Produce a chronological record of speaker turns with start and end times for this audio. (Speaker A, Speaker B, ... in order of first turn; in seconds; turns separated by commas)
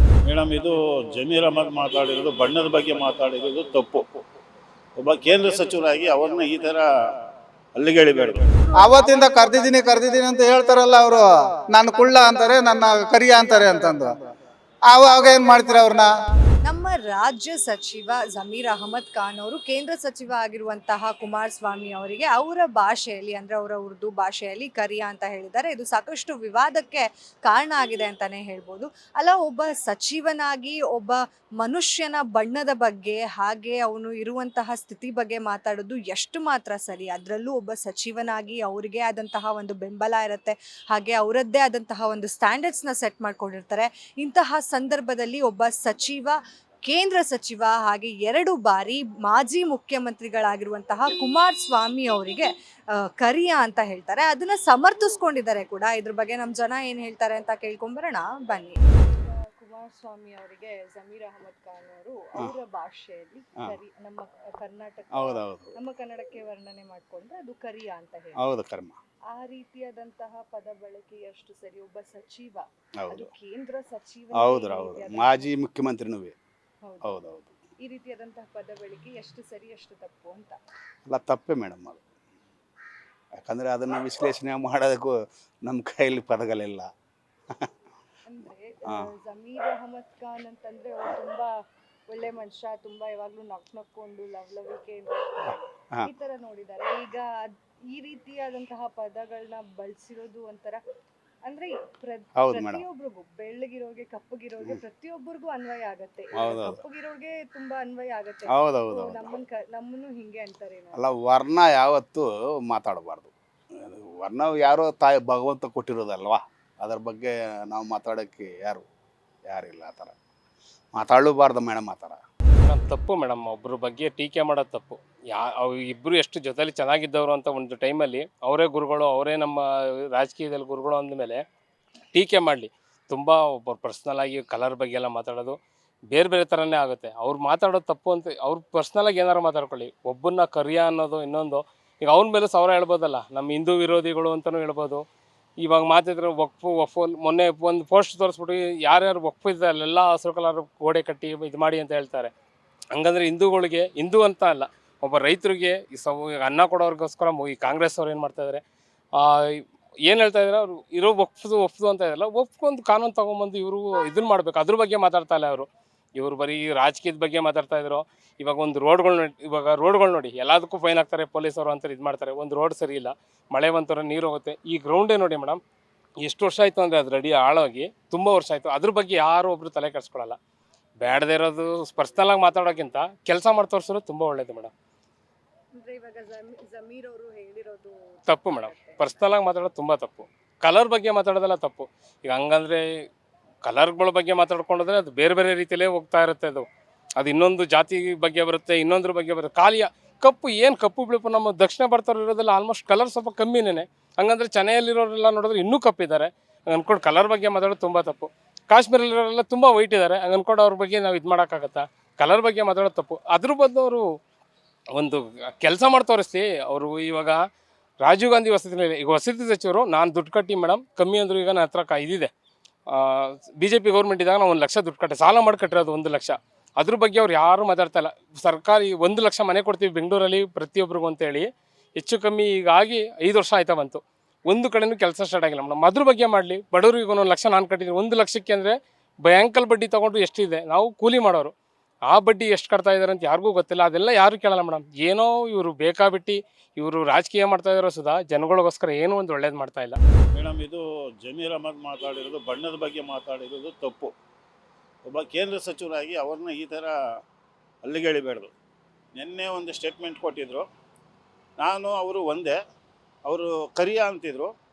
Speaker A: 0.3-4.0, Speaker A: 5.0-6.8, Speaker A: 7.8-8.4, Speaker B: 8.7-10.1, Speaker C: 8.8-14.2, Speaker C: 14.9-16.1, Speaker B: 15.1-16.0, Speaker B: 16.6-68.4, Speaker D: 65.1-65.7, Speaker D: 68.3-69.0, Speaker B: 69.3-75.5, Speaker D: 73.0-73.3, Speaker D: 74.3-76.3, Speaker B: 76.8-77.1, Speaker D: 77.0-77.5, Speaker B: 77.8-80.6, Speaker D: 81.0-82.0, Speaker D: 83.4-86.9, Speaker B: 88.3-91.5, Speaker B: 92.1-97.4, Speaker B: 97.9-100.8, Speaker B: 101.4-111.0, Speaker D: 102.3-102.8, Speaker D: 106.3-106.8, Speaker C: 107.6-107.9, Speaker D: 108.5-109.4, Speaker D: 110.9-118.8, Speaker D: 119.5-120.1, Speaker D: 120.9-122.2, Speaker E: 122.6-131.4, Speaker E: 132.1-135.6, Speaker E: 136.1-145.0, Speaker E: 145.6-152.3, Speaker E: 152.9-158.6, Speaker E: 159.2-175.6, Speaker E: 176.2-180.4, Speaker E: 181.0-184.7, Speaker B: 185.8-189.0, Speaker E: 188.3-192.8, Speaker E: 193.6-196.7, Speaker E: 197.2-214.0, Speaker E: 214.9-217.4, Speaker E: 218.0-222.3, Speaker E: 222.9-241.5, Speaker E: 242.1-250.0, Speaker A: 250.3-254.1, Speaker A: 255.1-256.9, Speaker A: 257.8-258.5, Speaker A: 259.1-260.6, Speaker A: 261.6-262.6, Speaker A: 263.2-264.5